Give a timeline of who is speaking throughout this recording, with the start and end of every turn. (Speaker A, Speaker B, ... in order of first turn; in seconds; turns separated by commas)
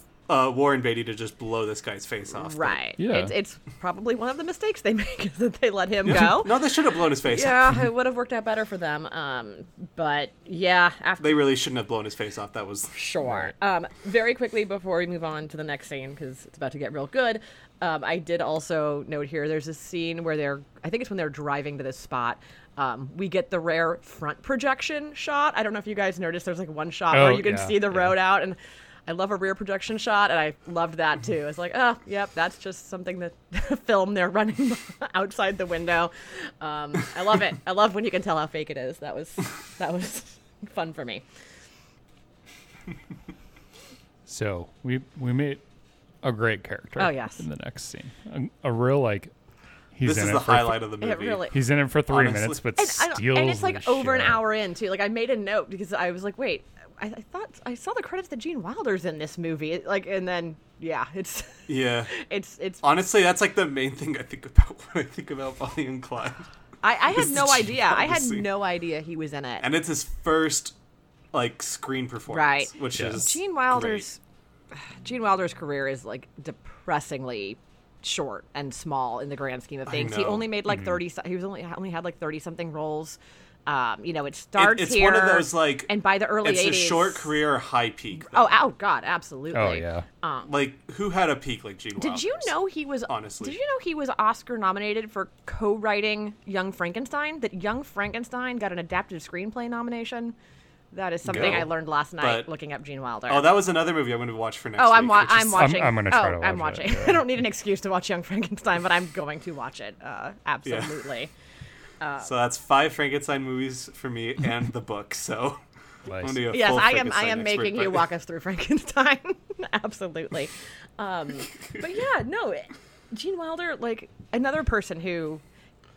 Speaker A: 0.3-2.8, Speaker B: 2.4-6.5, Speaker C: 3.0-3.3, Speaker A: 6.0-7.6, Speaker C: 6.1-6.4, Speaker B: 7.2-11.4, Speaker A: 11.2-12.9, Speaker B: 12.9-41.2, Speaker C: 27.1-28.2, Speaker C: 44.3-45.6, Speaker C: 46.2-49.3, Speaker B: 47.0-47.4, Speaker C: 49.9-50.9, Speaker A: 50.0-51.5, Speaker B: 51.0-51.5, Speaker C: 51.5-54.4, Speaker A: 52.1-52.6, Speaker B: 52.8-62.8, Speaker A: 61.7-62.1, Speaker A: 62.8-66.5, Speaker B: 66.8-69.7, Speaker A: 67.1-68.5, Speaker A: 69.6-70.7, Speaker A: 71.3-74.0, Speaker B: 72.3-74.2, Speaker C: 73.0-73.2, Speaker B: 75.0-87.3, Speaker A: 79.9-80.5, Speaker C: 80.7-81.0, Speaker A: 84.6-88.5, Speaker B: 88.3-90.5, Speaker C: 89.5-90.0, Speaker A: 90.5-92.5, Speaker B: 92.0-100.3, Speaker A: 93.1-93.6, Speaker B: 100.9-103.6, Speaker A: 101.2-102.5, Speaker C: 101.3-101.6, Speaker A: 103.3-105.8, Speaker B: 104.8-111.3, Speaker C: 105.5-107.3, Speaker A: 110.6-110.9, Speaker B: 112.0-112.3, Speaker A: 112.2-115.6, Speaker C: 116.1-116.5, Speaker A: 116.2-118.1, Speaker B: 116.5-125.4